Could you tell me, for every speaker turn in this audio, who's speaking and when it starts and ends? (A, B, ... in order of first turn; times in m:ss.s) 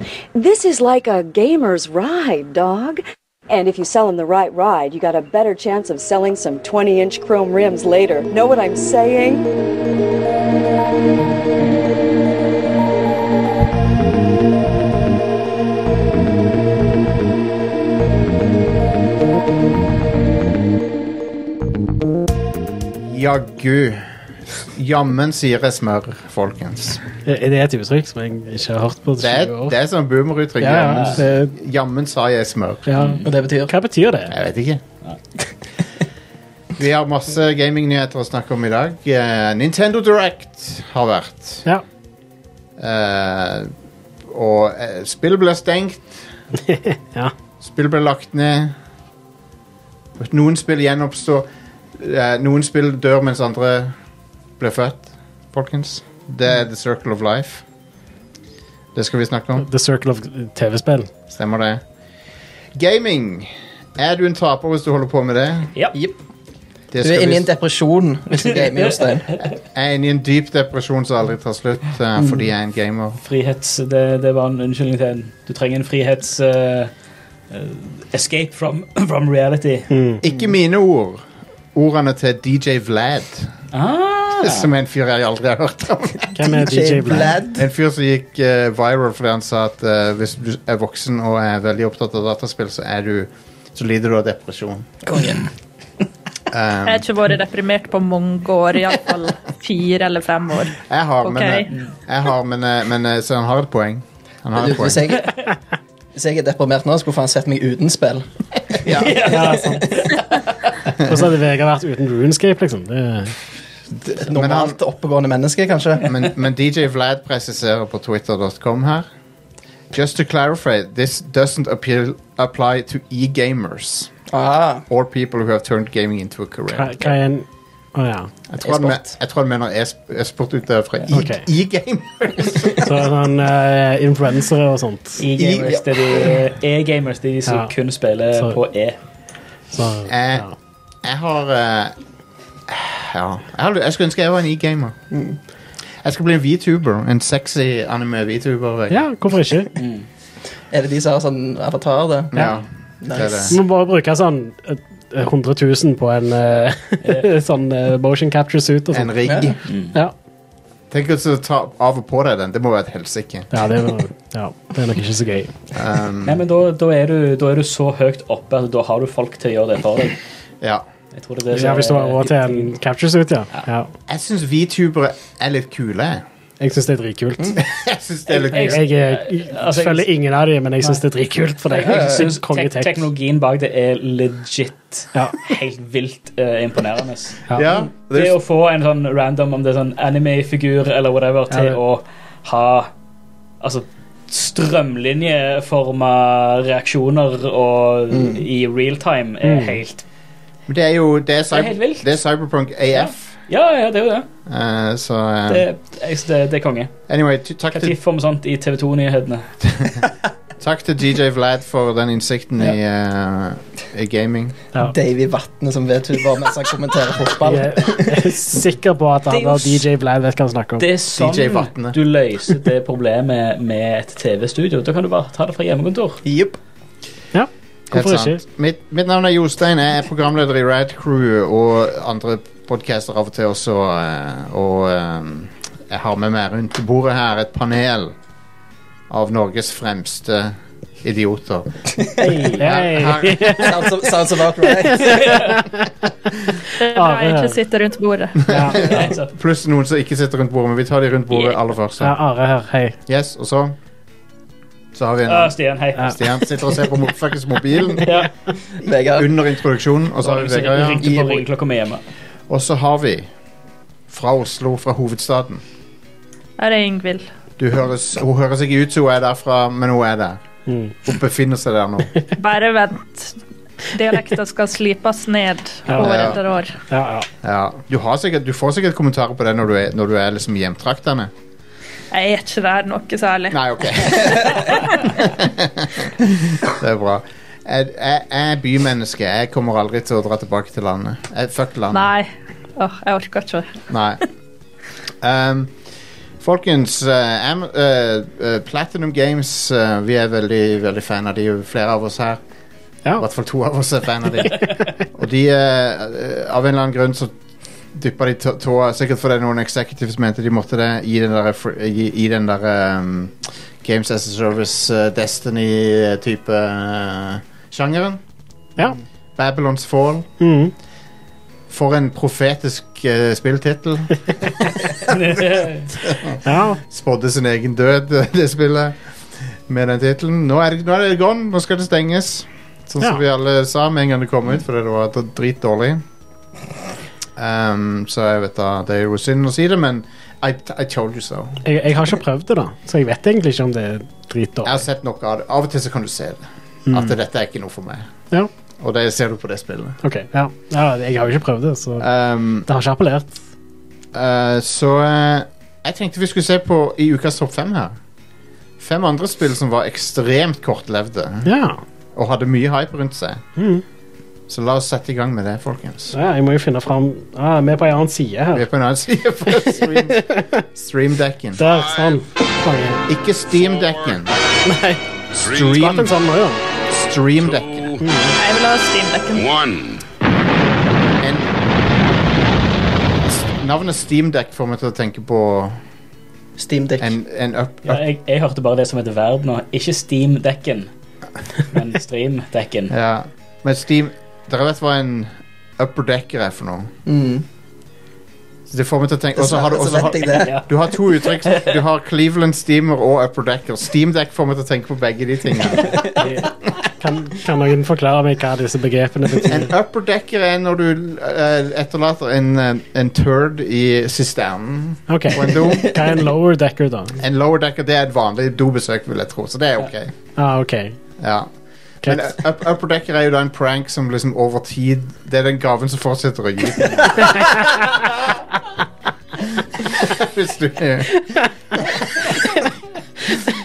0:00.3-0:09.5 A
0:23.0-0:24.1 B
0:24.7-0:27.0 B
0:27.3-0:29.8 C
0:29.2-0:32.9 B
0:30.6-0:31.6 C
0:32.9-0:34.3 C
0:33.0-0:33.3 D
0:33.2-0:33.7 E
0:34.3-0:34.8 B
0:36.8-0:41.7 B
0:42.8-0:43.7 B
0:44.3-0:46.3 B
0:46.7-0:47.3 C
0:47.6-0:48.8 B
0:50.2-0:54.0 B
0:54.6-0:57.6 B
0:59.0-0:59.7 B
0:59.6-1:01.1 C
1:01.3-1:01.8 B
1:02.8-1:05.8 B
1:06.9-1:07.5 B
1:07.0-1:09.3 E
1:08.4-1:09.0 D
1:09.4-1:13.2 B
1:12.2-1:12.5 E
1:13.2-1:16.9 D
1:17.5-1:19.9 D
1:19.9-1:20.2 C
1:20.2-1:23.5 B
1:23.7-1:24.7 D
1:24.4-1:26.6 B
1:26.4-1:27.4 C
1:26.5-1:27.7 E
1:27.3-1:34.9 B
1:35.0-1:35.5 E
1:36.5-1:37.1 B
1:36.8-1:41.7 F
1:40.9-1:45.1 B
1:44.6-1:45.4 E
1:46.2-1:49.5 E
1:48.8-1:49.2 B
1:48.9-1:50.7 D
1:49.3-1:49.9 C
1:51.0-1:53.4 C
1:53.9-1:54.8 B
1:54.2-1:56.2 E
1:56.0-1:59.1 B
1:59.9-2:04.1 B
2:04.3-2:04.9 E
2:04.9-2:07.1 B
2:06.7-2:08.3 C
2:08.5-2:13.0 B
2:11.1-2:11.4 C
2:12.8-2:15.2 C
2:15.2-2:19.0 D
2:15.4-2:16.4 E
2:17.5-2:17.7 C
2:19.7-2:20.5 C
2:20.1-2:20.5 B
2:21.0-2:22.0 B
2:22.7-2:25.0 B
2:25.1-2:25.4 E
2:26.0-2:29.1 B
2:28.9-2:29.8 C
2:29.8-2:30.1 D
2:30.7-2:33.6 E
2:32.3-2:33.6 B
2:33.5-2:39.4 C
2:38.9-2:39.6 B
2:39.3-2:39.6 E
2:39.6-2:40.0 D
2:40.9-2:43.5 B
2:43.5-2:45.5 C
2:45.7-2:46.4 B
2:46.2-2:50.2 D
2:51.1-2:52.7 D
2:51.5-2:53.9 C
2:54.1-2:56.2 B
2:56.6-2:57.6 C
2:57.6-2:58.9 B
2:58.3-3:00.1 D
2:58.6-3:03.1 C
3:01.7-3:07.4 D
3:05.2-3:05.4 C
3:07.6-3:08.4 B
3:08.0-3:12.9 D
3:11.5-3:11.8 C
3:13.6-3:20.0 D
3:18.1-3:18.4 E
3:19.4-3:19.8 C
3:20.7-3:23.4 B
3:21.5-3:22.2 D
3:22.9-3:24.3 D
3:24.5-3:25.6 B
3:25.5-3:26.9 D
3:27.1-3:28.0 B
3:27.7-3:29.5 D
3:29.6-3:34.6 B
3:34.8-3:38.3 E
3:37.4-3:40.8 C
3:39.3-3:39.8 D
3:40.8-3:46.2 D
3:41.1-3:42.0 B
3:46.2-3:46.6 E
3:47.3-3:48.4 C
3:47.9-3:58.2 B
3:59.1-4:01.8 B
4:02.2-4:03.9 C
4:02.6-4:03.7 B
4:03.6-4:05.5 E
4:04.6-4:05.9 C
4:05.2-4:05.5 D
4:06.8-4:08.6 F
4:06.9-4:07.6 C
4:08.5-4:12.2 B
4:08.5-4:09.1 C
4:08.7-4:09.3 D
4:12.0-4:13.0 C
4:13.1-4:13.8 B
4:14.9-4:18.2 B
4:15.3-4:16.4 D
4:18.0-4:18.3 D
4:18.8-4:19.4 E
4:19.2-4:21.1 B
4:20.2-4:22.0 D
4:21.0-4:21.4 E
4:22.5-4:23.3 B
4:24.1-4:25.6 B
4:26.6-4:27.2 F
4:27.6-4:30.4 B
4:30.7-4:31.0 C
4:31.0-4:32.2 B
4:32.4-4:33.4 F
4:33.9-4:36.8 F
4:35.9-4:36.2 C
4:36.0-4:36.4 B
4:36.9-4:37.3 C
4:37.4-4:41.3 B
4:42.1-4:45.2 F
4:43.5-4:44.6 B
4:45.2-4:52.1 B
4:51.9-4:53.8 F
4:53.9-4:54.2 B
4:55.2-4:55.8 B
4:56.4-5:02.4 B
5:03.2-5:07.4 B
5:07.9-5:18.2 B
5:19.4-5:20.3 B
5:20.4-5:20.7 C
5:21.7-5:25.4 B
5:25.0-5:25.9 D
5:26.0-5:36.0 B
5:26.4-5:26.8 C
5:37.4-5:41.6 B
5:41.6-5:44.8 C
5:44.6-5:48.1 B
5:46.9-5:47.2 C
5:48.8-5:50.0 B
5:50.0-5:52.1 C
5:52.0-5:52.7 B
5:52.6-5:53.4 C
5:54.1-5:58.0 B
5:58.8-6:01.5 B
6:01.4-6:01.8 C
6:02.2-6:03.4 B
6:03.6-6:03.8 C
6:04.5-6:06.2 B
6:06.1-6:08.7 C
6:08.5-6:11.6 B
6:10.1-6:10.6 C
6:11.6-6:13.0 C
6:11.6-6:12.2 G
6:13.1-6:14.4 B
6:13.6-6:14.3 G
6:14.6-6:15.0 C
6:15.4-6:15.9 G
6:15.4-6:16.2 B
6:15.6-6:16.6 C
6:16.9-6:17.9 B
6:17.4-6:18.1 G
6:18.0-6:18.3 C
6:18.4-6:19.5 F
6:19.3-6:20.0 G
6:21.2-6:21.5 B
6:23.2-6:25.8 B
6:26.6-6:27.1 E
6:27.0-6:28.0 B
6:27.8-6:30.9 D
6:31.7-6:32.9 D
6:32.9-6:36.9 B
6:37.1-6:37.4 E
6:38.7-6:46.1 B
6:39.4-6:40.7 E
6:40.3-6:41.8 D
6:47.0-6:49.7 C
6:49.4-6:56.0 B
6:55.1-6:57.2 C
6:57.2-7:00.1 B
7:00.4-7:01.0 C
7:01.2-7:01.5 B
7:02.0-7:02.3 C
7:02.0-7:08.3 B
7:07.4-7:07.6 C
7:09.8-7:11.9 B